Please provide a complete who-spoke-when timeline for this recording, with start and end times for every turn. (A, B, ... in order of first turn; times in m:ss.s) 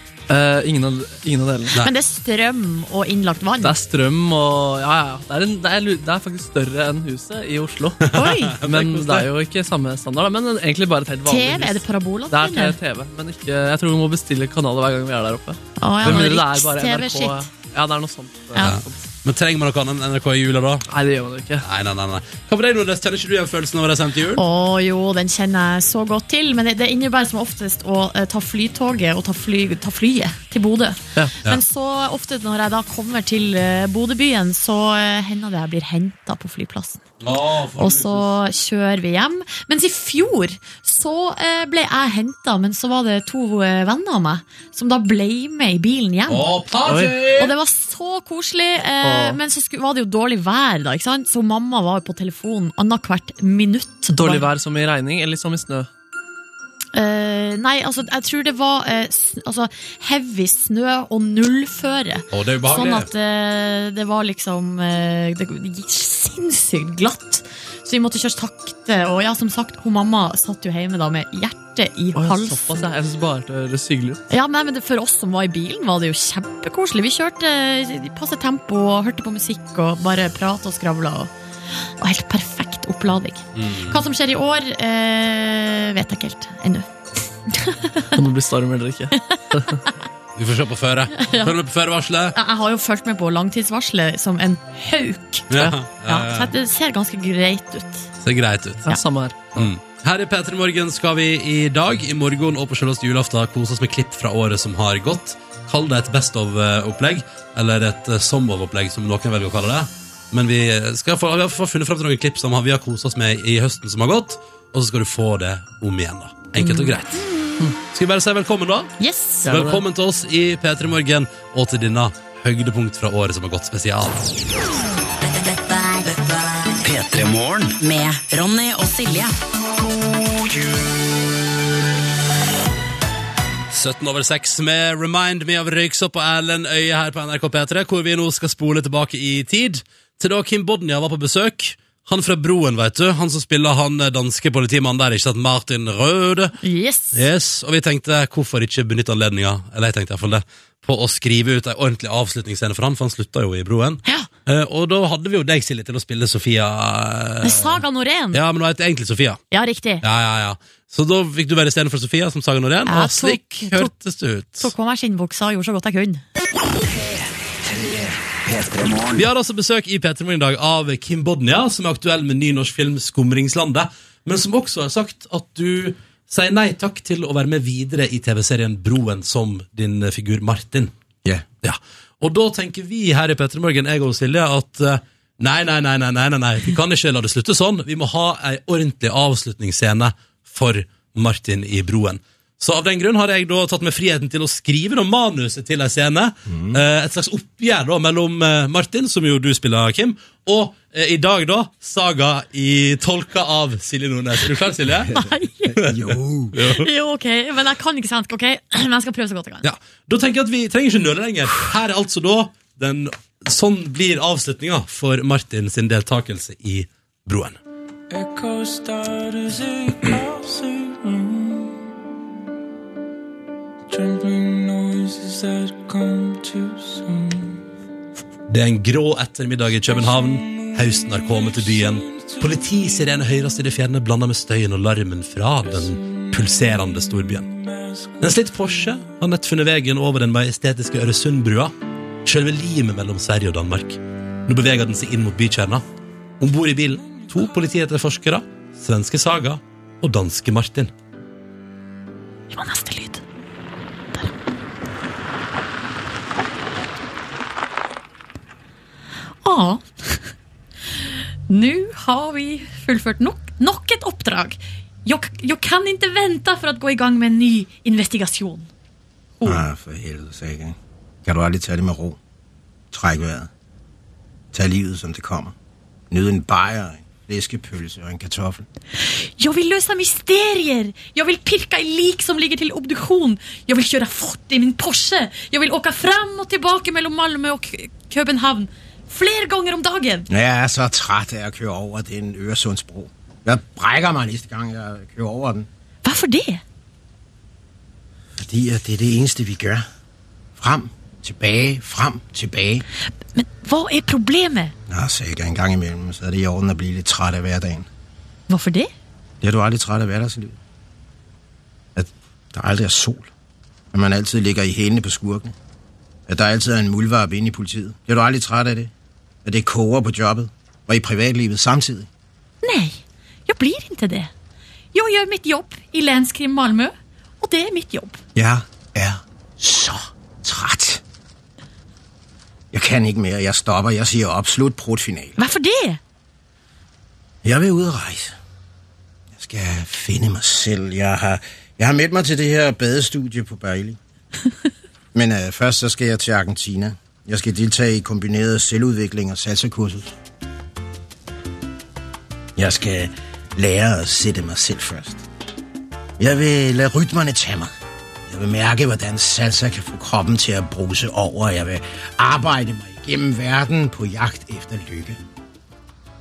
0:00.3-0:01.8 A
0:01.8-0:03.7 B
0:03.6-0:08.1 A
0:08.0-0:09.3 C
0:08.1-0:08.6 B
0:08.6-0:19.1 A
0:11.3-0:12.8 B
0:15.8-0:17.5 B
0:18.6-0:20.8 C
0:20.9-0:21.6 A
0:21.6-0:24.4 C
0:24.4-0:37.0 B
0:37.2-0:38.2 C
0:37.8-0:46.5 B
0:46.3-0:47.5 C
0:46.9-0:47.3 A
0:47.4-0:54.5 B
0:49.0-0:49.4 A
0:54.1-0:55.9 A
0:56.9-1:12.9 B
1:02.3-1:03.1 C
1:12.2-1:14.2 A
1:14.3-1:21.3 B
1:22.0-1:26.9 B
1:23.6-1:24.0 C
1:27.5-1:28.1 B
1:28.2-1:29.8 A
1:29.3-1:29.9 B
1:30.4-1:32.4 C
1:31.2-1:31.5 B
1:32.3-1:35.5 B
1:35.5-1:36.5 C
1:36.0-1:38.1 B
1:38.2-1:38.8 C
1:38.8-1:39.4 A
1:39.6-1:57.2 C
1:56.6-1:56.9 B
1:57.9-1:58.9 C
1:59.0-1:59.5 B
1:59.4-1:59.8 A
1:59.5-2:04.3 C
2:05.2-2:06.8 D
2:06.8-2:07.8 E
2:07.8-2:09.4 D
2:13.7-2:26.6 C
2:26.6-2:27.2 B
2:27.1-2:37.8 C
2:37.4-2:38.4 B
2:38.3-2:39.4 C
2:39.5-2:40.0 B
2:40.0-2:44.7 C
2:42.9-2:43.9 B
2:44.6-2:46.2 B
2:47.7-2:49.2 E
2:49.2-3:00.9 C
3:01.6-3:25.1 C
3:16.5-3:16.8 F
3:25.1-3:25.8 B
3:25.7-3:26.6 F
3:25.8-3:26.9 C
3:26.6-3:29.7 B
3:29.6-3:37.6 C
3:48.5-3:57.5 C
3:58.2-4:01.7 C
4:02.2-4:05.8 C
4:06.4-4:10.9 C
4:12.5-4:13.2 B
4:19.4-4:20.3 B
4:21.0-4:28.7 B
4:29.4-4:32.2 F
4:32.9-4:33.5 F
4:34.5-4:35.5 F
4:36.1-4:38.7 F
4:39.0-4:50.3 B
4:50.3-4:55.7 F
4:56.0-4:56.6 B
4:58.4-4:59.8 F
5:00.6-5:02.8 F
5:03.3-5:04.7 B
5:04.9-5:07.9 F
5:08.5-5:08.9 B
5:09.4-5:10.6 F
5:12.0-5:13.3 F
5:13.9-5:15.6 F
5:16.3-5:18.9 F
5:19.4-5:22.1 F
5:22.6-5:24.3 B
5:24.9-5:28.2 B
5:28.4-5:31.0 F
5:32.7-5:35.4 F
5:35.4-5:36.0 B
5:37.4-5:38.3 F
5:39.3-5:44.0 F
5:45.1-5:50.2 F
5:52.6-5:55.2 F
5:56.2-5:57.7 F
5:58.3-6:05.2 F